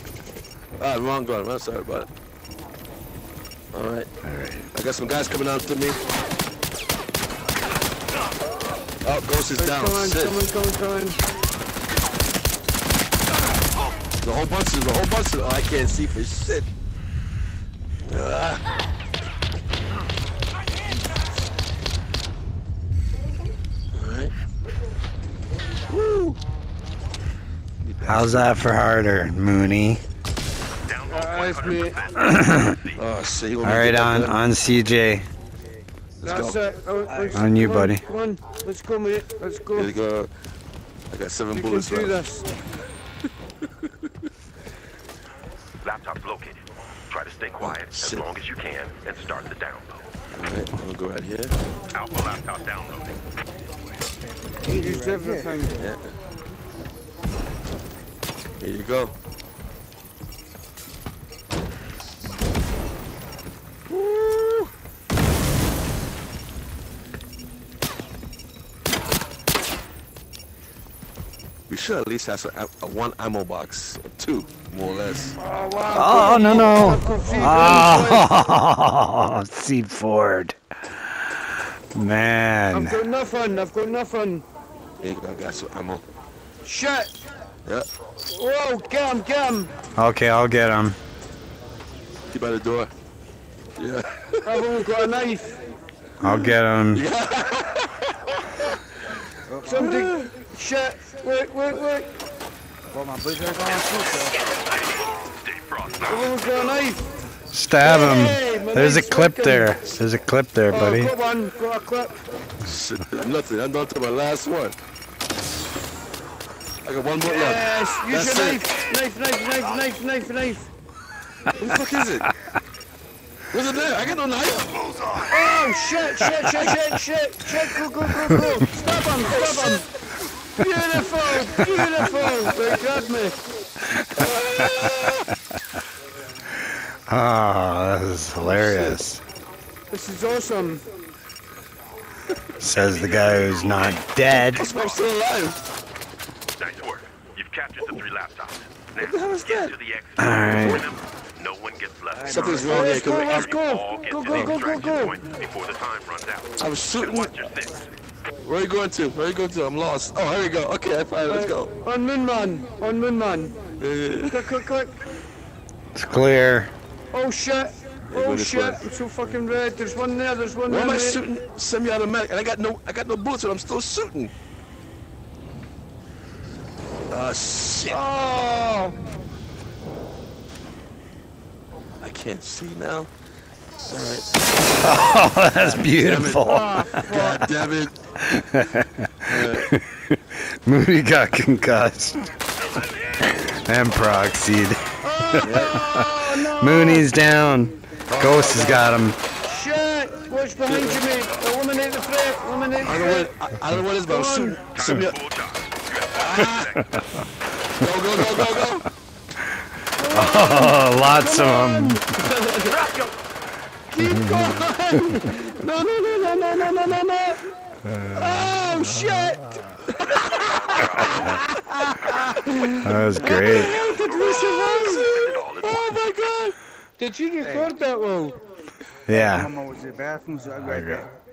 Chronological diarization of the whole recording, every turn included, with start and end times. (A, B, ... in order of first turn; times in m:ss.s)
0:00.8-0:02.1 A
0:03.7-0:04.1 A
0:04.2-0:04.7 B
0:04.7-0:06.0 A
0:09.0-0:10.4 A
0:09.5-0:11.2 C
0:14.2-0:16.7 A
0:18.0-0:18.6 A
0:23.9-0:24.3 A
0:25.9-0:26.4 A
0:27.8-0:28.6 A
0:28.0-0:30.0 B
0:30.8-0:33.0 D
0:31.1-0:32.0 C
0:32.2-0:32.8 B
0:33.0-0:34.4 A
0:33.6-0:35.2 B
0:36.2-0:39.9 C
0:36.2-0:36.6 A
0:37.3-0:38.0 B
0:39.7-0:40.3 A
0:41.1-0:42.2 A
0:41.5-0:42.5 C
0:45.8-0:50.0 D
0:47.6-0:48.2 A
0:50.3-0:51.5 A
0:51.9-0:53.1 D
0:54.6-0:55.9 C
0:54.8-0:55.6 E
0:55.7-0:56.1 A
0:58.6-0:59.1 A
1:03.9-1:04.7 A
1:11.7-1:15.4 A
1:15.4-1:18.3 C
1:15.9-1:20.6 B
1:21.9-1:23.0 B
1:22.7-1:24.4 C
1:25.0-1:26.0 A
1:26.6-1:27.1 C
1:28.3-1:29.7 C
1:30.0-1:31.0 B
1:32.3-1:32.9 A
1:33.8-1:34.7 A
1:34.4-1:35.6 C
1:36.2-1:37.0 B
1:36.2-1:38.4 A
1:39.5-1:39.8 E
1:39.6-1:42.1 C
1:39.7-1:40.3 A
1:42.9-1:44.3 E
1:44.7-1:46.7 D
1:46.0-1:47.1 C
1:47.5-1:51.1 B
1:47.8-1:49.8 C
1:50.7-1:52.2 C
1:52.6-1:54.7 A
1:56.8-1:58.6 A
1:57.2-2:00.7 C
2:01.5-2:02.3 A
2:03.5-2:05.7 A
2:05.2-2:09.9 C
2:06.4-2:06.8 A
2:09.3-2:09.8 A
2:10.6-2:13.4 C
2:14.0-2:14.9 B
2:14.2-2:15.3 A
2:17.1-2:19.2 B
2:18.4-2:19.0 A
2:19.9-2:20.8 C
2:22.6-2:24.6 B
2:22.7-2:25.1 D
2:24.3-2:25.6 A
2:26.6-2:37.9 D
2:29.0-2:29.8 A
2:30.2-2:31.0 B
2:32.2-2:33.6 A
2:32.5-2:35.2 C
2:34.3-2:34.8 A
2:36.6-2:37.4 A
2:38.4-2:41.7 A
2:41.3-2:43.6 C
2:43.8-2:44.6 A
2:44.2-2:45.0 C
2:45.9-2:46.7 B
2:47.1-2:51.2 C
2:48.1-2:48.8 A
2:50.6-2:54.3 A
2:57.1-2:58.0 A
2:57.9-2:58.9 C
3:02.0-3:03.1 A
3:03.8-3:08.0 A
3:04.8-3:07.4 B
3:06.4-3:07.5 C
3:08.2-3:12.3 B
3:09.3-3:09.7 A
3:13.4-3:19.2 B
3:15.0-3:17.1 C
3:15.4-3:15.8 A
3:18.1-3:18.8 A
3:19.4-3:23.3 C
3:20.7-3:21.0 A
3:22.8-3:25.2 A
3:23.9-3:24.6 C
3:24.7-3:27.0 D
3:26.2-3:26.8 A
3:26.7-3:27.0 B
3:27.7-3:28.9 A
3:30.0-3:33.1 C
3:30.1-3:32.2 B
3:33.9-3:37.4 C
3:34.0-3:35.0 B
3:37.9-3:38.4 B
3:38.1-3:45.1 C
3:40.5-3:41.4 D
3:42.8-3:43.8 B
3:43.3-3:46.5 A
3:43.9-3:45.8 D
3:47.0-3:48.4 C
3:49.1-3:49.6 B
3:49.1-3:51.0 E
3:50.6-3:51.0 B